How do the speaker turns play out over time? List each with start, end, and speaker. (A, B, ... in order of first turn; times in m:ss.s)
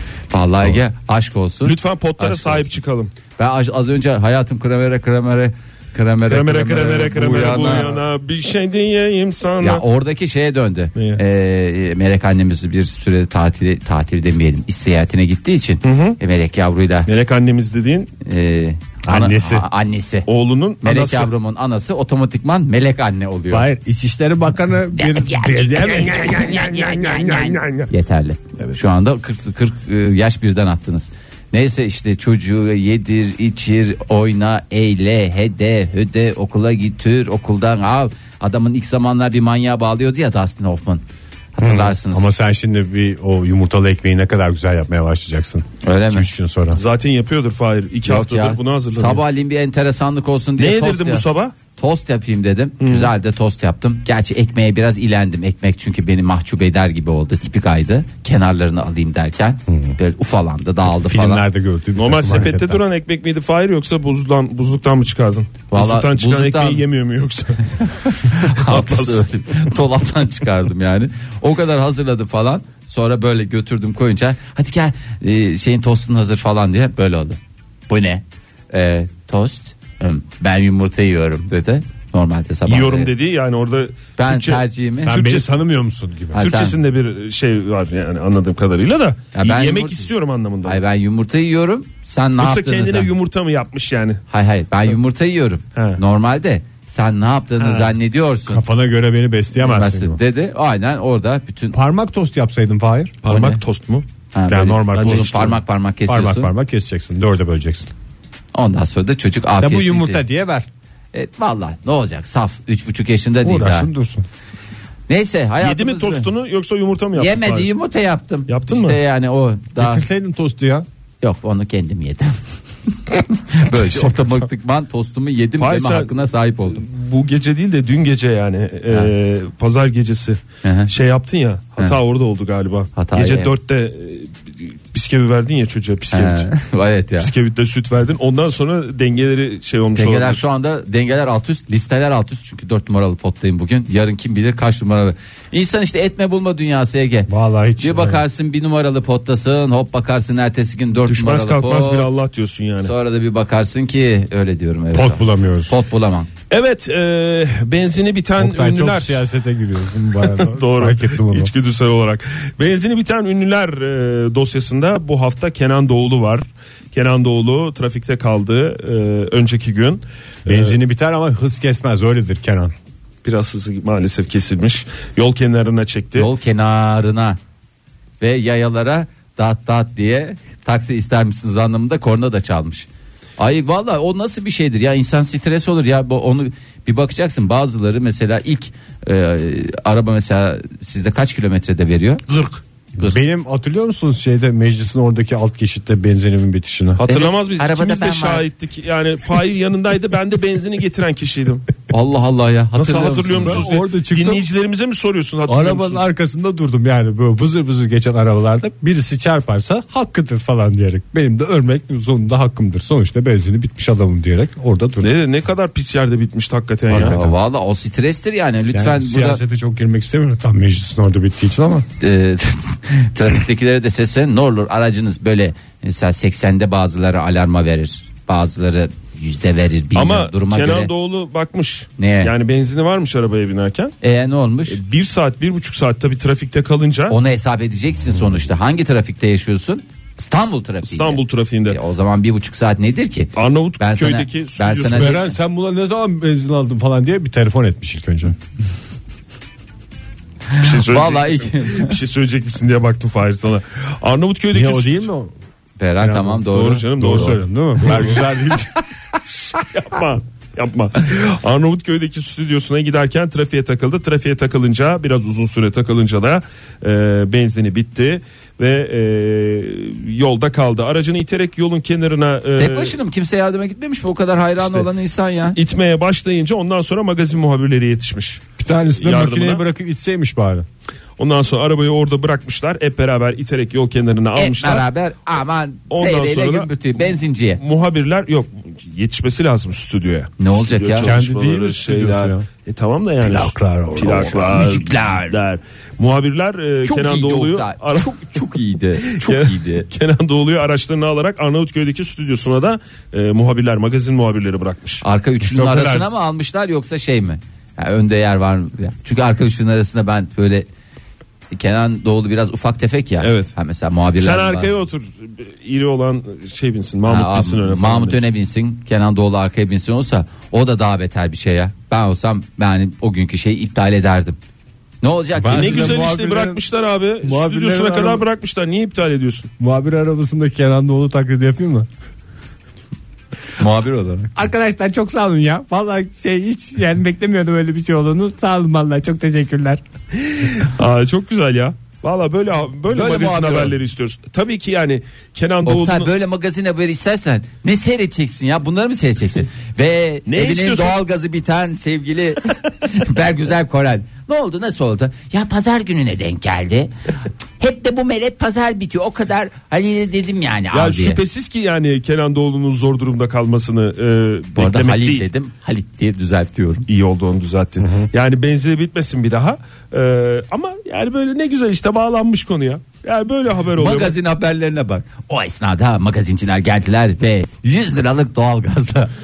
0:00.3-0:02.8 A
0:01.6-0:03.1 B
0:03.4-0:08.0 A
0:06.3-0:09.8 B
0:09.6-0:17.1 A
0:11.0-0:11.2 B
0:15.8-0:16.2 B
0:17.1-0:18.1 B
0:18.2-0:20.3 A
0:19.0-0:19.7 C
0:20.3-0:21.3 B
0:20.8-0:23.7 A
0:23.5-0:26.8 C
0:25.0-0:41.0 A
0:25.8-0:27.9 B
0:41.6-0:42.3 A
0:41.6-0:46.8 C
0:45.8-0:46.3 A
0:46.7-0:49.2 B
0:48.1-0:51.2 A
0:50.6-0:51.6 B
0:51.8-1:01.4 A
0:52.8-0:53.1 B
0:59.7-1:00.0 C
1:01.0-1:02.8 C
1:02.0-1:09.2 B
1:05.7-1:06.8 A
1:08.1-1:17.4 A
1:17.9-1:23.1 A
1:22.7-1:25.5 B
1:24.2-1:25.1 A
1:25.0-1:26.4 C
1:26.3-1:30.8 B
1:26.4-1:26.8 A
1:29.3-1:30.1 A
1:30.6-1:33.1 A
1:32.4-1:34.2 B
1:34.3-1:38.6 A
1:35.8-1:36.0 B
1:37.6-1:38.0 B
1:38.5-1:40.2 C
1:39.6-1:41.8 A
1:41.7-1:43.2 C
1:43.2-1:44.1 B
1:43.3-1:43.6 A
1:44.3-1:46.5 A
1:44.5-1:47.9 C
1:48.5-1:50.2 A
1:49.6-1:50.7 C
1:51.1-1:53.9 A
1:53.4-1:54.2 C
1:55.1-1:56.3 A
1:55.6-1:57.7 B
1:57.2-2:00.0 A
1:58.5-1:59.0 B
1:59.8-2:00.9 C
2:01.2-2:02.4 A
2:02.9-2:06.8 A
2:03.8-2:04.4 C
2:05.6-2:16.5 B
2:10.6-2:10.9 A
2:13.0-2:13.5 A
2:16.1-2:17.3 A
2:17.2-2:20.4 B
2:20.0-2:32.1 A
2:27.3-2:28.2 C
2:31.1-2:32.9 B
2:32.8-2:36.3 A
2:34.9-2:35.8 C
2:36.5-2:39.2 B
2:38.4-2:41.5 C
2:40.2-2:50.8 B
2:50.5-2:52.7 C
2:53.2-2:56.3 B
2:56.2-2:57.4 A
2:58.2-3:02.9 A
3:03.4-3:13.2 A
3:13.0-3:17.0 C
3:17.0-3:21.7 B
3:17.1-3:18.4 A
3:21.9-3:23.7 A
3:22.8-3:26.0 B
3:23.3-3:24.5 C
3:25.5-3:35.1 C
3:35.0-3:37.2 B
3:36.9-3:37.4 C
3:36.9-3:39.4 A
3:38.7-3:41.9 C
3:42.0-3:50.9 A
3:50.0-3:53.9 B
3:52.0-3:52.3 A
3:54.0-3:54.8 A
3:54.7-3:57.2 B
3:57.1-4:05.4 A
4:00.8-4:01.8 B
4:03.4-4:05.2 B
4:04.9-4:08.3 C
4:10.5-4:12.0 A
4:10.6-4:15.1 B
4:14.5-4:15.3 C
4:15.8-4:18.2 A
4:16.0-4:18.8 C
4:16.5-4:18.2 B
4:19.2-4:33.0 B
4:32.6-4:35.6 A
4:34.6-4:34.9 B
4:35.6-4:38.4 B
4:38.6-4:40.7 C
4:39.0-4:39.6 B
4:41.2-4:44.9 B
4:44.4-4:47.6 A
4:45.9-4:58.3 B
4:50.4-4:51.2 A
4:51.0-4:52.5 C
4:53.2-4:54.8 C
4:54.2-4:55.3 A
4:56.8-4:59.9 A
4:59.0-5:05.0 B
5:05.0-5:10.7 A
5:05.4-5:06.1 C
5:11.5-5:14.7 A
5:13.2-5:13.5 B
5:14.2-5:18.2 B
5:17.1-5:24.4 A
5:25.0-5:26.0 A
5:25.4-5:26.6 C
5:25.5-5:29.5 B
5:27.2-5:28.2 C
5:29.6-5:31.9 C
5:33.6-5:34.3 A
5:34.4-5:39.8 C
5:40.2-5:46.1 B
5:42.9-5:43.8 C
5:45.6-6:01.2 A
5:50.3-5:51.0 B
6:00.7-6:05.3 B
6:04.6-6:06.9 A
6:06.9-6:14.2 B
6:07.8-6:08.1 C
6:13.8-6:19.1 A